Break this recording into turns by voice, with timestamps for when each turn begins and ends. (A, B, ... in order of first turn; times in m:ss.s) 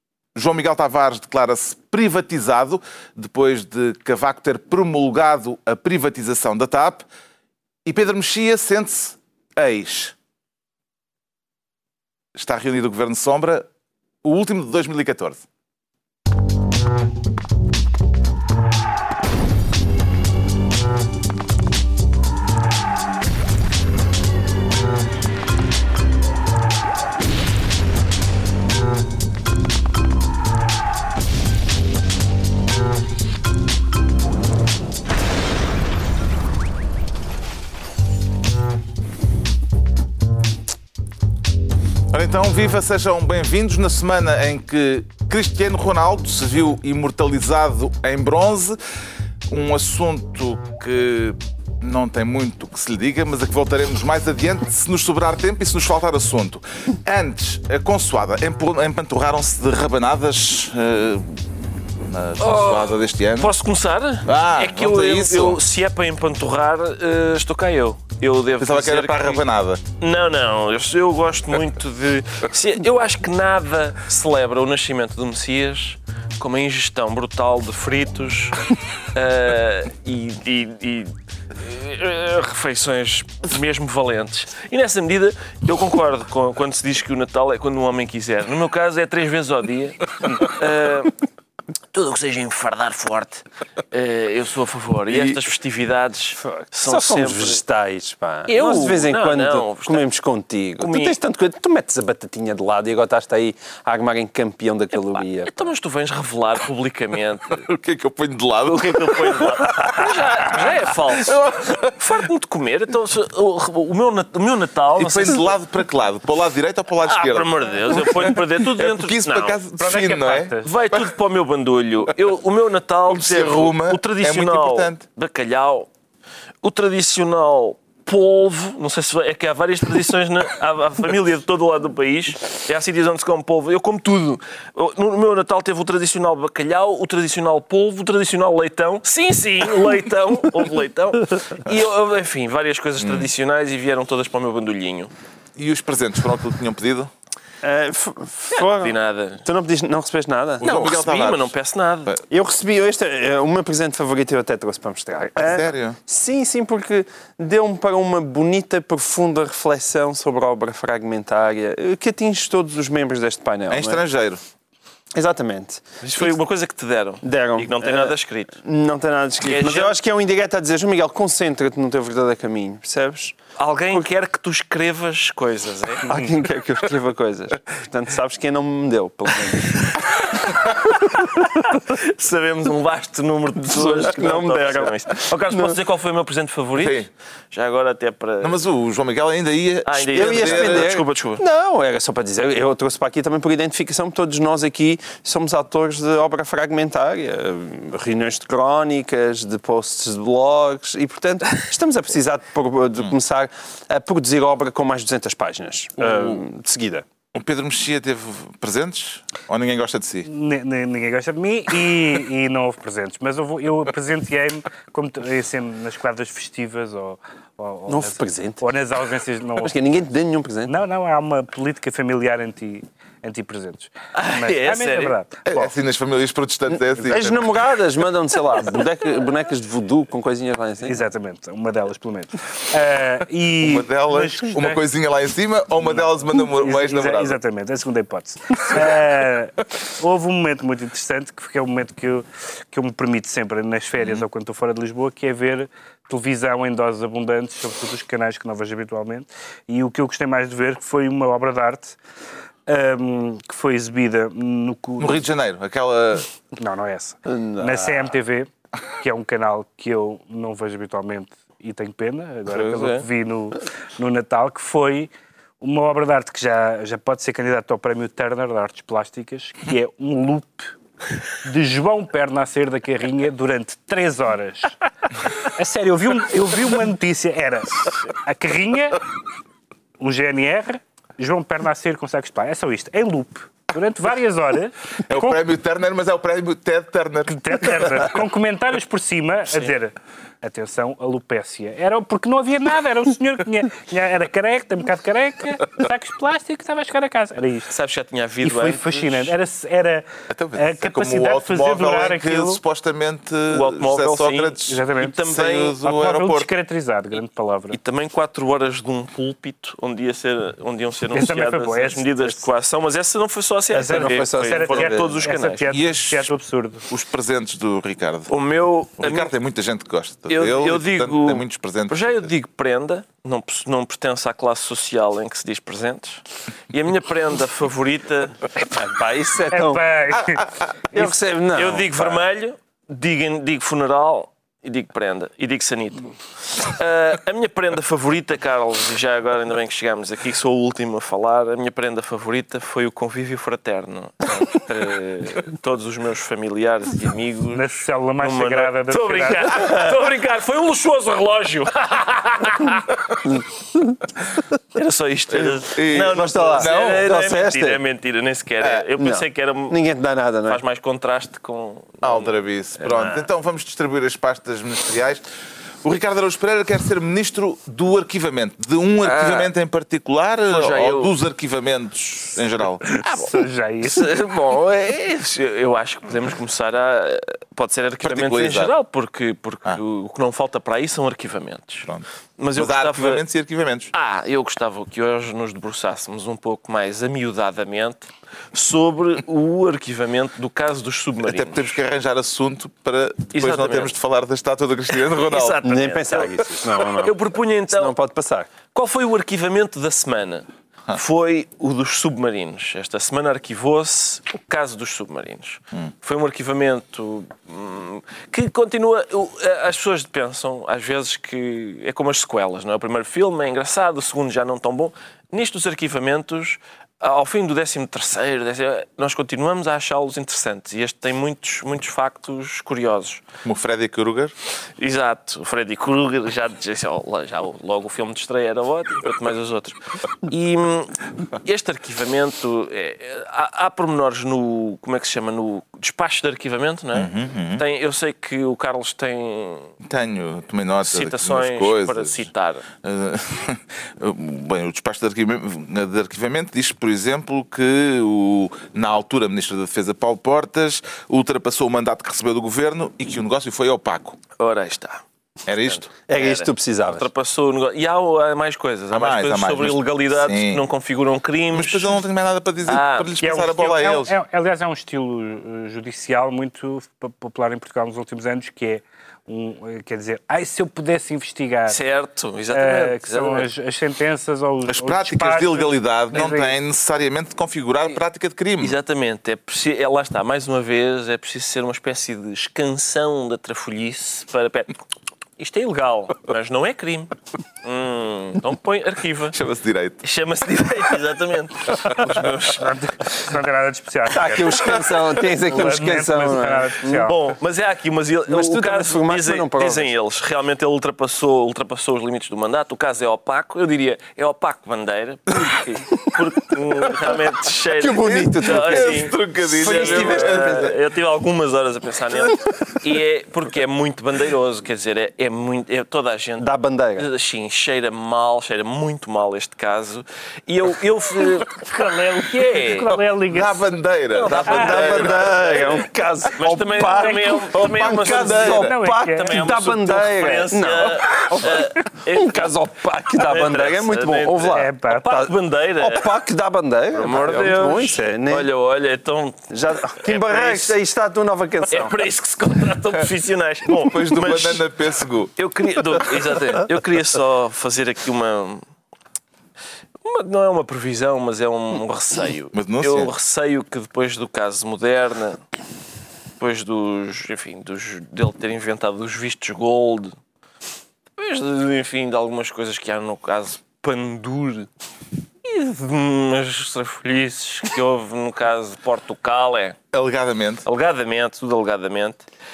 0:00.4-0:07.0 A
0:07.8-0:10.2 A
0:12.4-0:13.7 A
0:14.2-0:15.4 A
0:42.1-0:48.8 A
0:49.5-1:01.5 A
1:02.0-1:03.5 A
1:02.4-1:09.4 B
1:04.2-1:05.6 A
1:08.6-1:09.8 A
1:10.0-1:18.6 B
1:19.1-1:31.2 B
1:31.9-1:37.6 B
1:35.1-1:35.4 A
1:36.4-1:45.6 C
1:38.5-1:40.1 B
1:40.8-1:41.2 B
1:45.4-1:47.7 B
1:47.6-1:50.5 A
1:48.6-1:55.6 B
1:51.1-1:52.0 A
1:55.0-2:01.1 A
1:57.0-1:59.6 B
1:59.8-2:00.7 D
2:00.6-2:05.9 B
2:03.1-2:05.0 A
2:06.6-2:25.1 B
2:23.0-2:23.3 A
2:25.6-2:27.1 A
2:27.6-2:30.6 C
2:28.6-2:29.4 B
2:30.6-2:31.5 A
2:30.6-2:32.2 B
2:32.3-2:44.0 C
2:35.4-2:36.0 A
2:43.7-2:44.4 A
2:45.2-2:46.3 C
2:46.0-2:48.6 B
2:47.2-2:53.4 C
2:49.4-2:50.0 B
2:53.6-2:56.1 B
2:56.0-2:59.9 C
2:59.7-3:08.6 B
3:03.7-3:05.8 C
3:06.8-3:07.1 A
3:08.4-3:10.9 A
3:09.8-3:11.4 B
3:10.1-3:27.1 C
3:27.3-3:30.3 A
3:30.2-3:39.7 D
3:37.9-3:38.7 C
3:39.6-3:40.8 C
3:40.7-3:45.4 D
3:44.1-3:45.2 B
3:45.5-3:47.6 A
3:46.7-3:51.0 C
3:50.8-3:54.8 D
3:53.6-3:57.4 A
3:56.3-4:12.0 D
4:04.0-4:04.2 A
4:12.7-4:15.2 D
4:15.0-4:16.3 A
4:16.6-4:25.1 D
4:17.3-4:18.1 C
4:22.5-4:23.0 B
4:25.6-4:30.7 D
4:31.4-4:39.0 D
4:40.0-4:45.4 D
4:45.1-4:47.8 A
4:47.3-4:57.7 D
4:57.7-4:59.3 B
4:58.4-5:02.6 D
5:00.3-5:06.5 A
5:03.5-5:05.8 B
5:04.7-5:05.2 D
5:05.8-5:07.8 D
5:07.7-5:15.8 B
5:11.1-5:12.4 D
5:13.7-5:15.3 C
5:13.7-5:16.9 D
5:15.7-5:16.3 A
5:16.9-5:18.3 A
5:18.3-5:19.3 B
5:19.0-5:22.3 A
5:20.3-5:28.4 B
5:28.7-5:29.8 C
5:29.5-5:30.5 D
5:30.9-5:32.2 C
5:30.9-5:53.0 B
5:47.5-5:49.8 D
5:53.2-5:54.0 C
5:54.8-5:59.8 B
5:55.3-5:57.1 A
5:56.0-5:57.8 C
5:58.6-5:58.9 A
5:59.0-6:00.6 C
6:00.5-6:03.3 B
6:02.0-6:05.2 A
6:05.8-6:13.0 A
6:09.0-6:09.5 B
6:10.5-6:11.2 B
6:13.0-6:14.1 D
6:13.8-6:23.2 B
6:18.0-6:18.7 A
6:21.9-6:23.9 A
6:23.9-6:31.8 B
6:31.2-6:35.6 A
6:33.3-6:33.9 B
6:34.9-6:38.0 B
6:35.6-6:37.2 C
6:37.7-6:38.5 C
6:38.7-7:03.2 B
7:03.4-7:04.3 A
7:04.8-7:19.7 B
7:16.9-7:17.6 A
7:19.8-7:22.3 A
7:20.8-7:22.6 B
7:22.8-7:34.2 A
7:34.4-7:35.0 B
7:35.5-7:35.9 A
7:35.7-7:42.0 B
7:36.1-7:37.1 C
7:38.9-7:40.6 A
7:41.5-7:44.1 A
7:42.6-7:43.1 B
7:43.2-7:51.8 D
7:51.7-7:53.5 B
7:52.5-7:56.6 D
7:54.7-7:58.8 A
7:58.6-8:04.8 B
8:05.4-8:09.4 B
8:09.3-8:10.0 A
8:10.0-8:12.8 B
8:11.8-8:12.3 A
8:12.6-8:14.8 D
8:14.1-8:17.1 C
8:15.4-8:17.2 D
8:17.0-8:42.9 B
8:18.3-8:19.9 C
8:27.8-8:30.8 C
8:28.0-8:30.8 A
8:36.4-8:37.1 C
8:41.6-8:43.7 D
8:43.2-8:45.7 A
8:44.1-8:52.6 B
8:44.3-8:58.5 C
8:46.9-8:47.4 D
8:47.5-8:48.8 A
8:48.4-8:49.5 D
8:53.1-8:56.1 B
8:54.5-8:55.1 D
8:56.9-9:00.8 B
8:59.5-9:02.0 C
9:01.7-9:04.6 B
9:03.8-9:05.3 A
9:05.4-9:08.6 B
9:10.0-9:15.4 B
9:12.5-9:13.1 A
9:16.4-9:20.1 B
9:21.2-9:24.7 B
9:25.4-9:29.8 B
9:29.9-9:30.6 A
9:30.7-9:32.2 B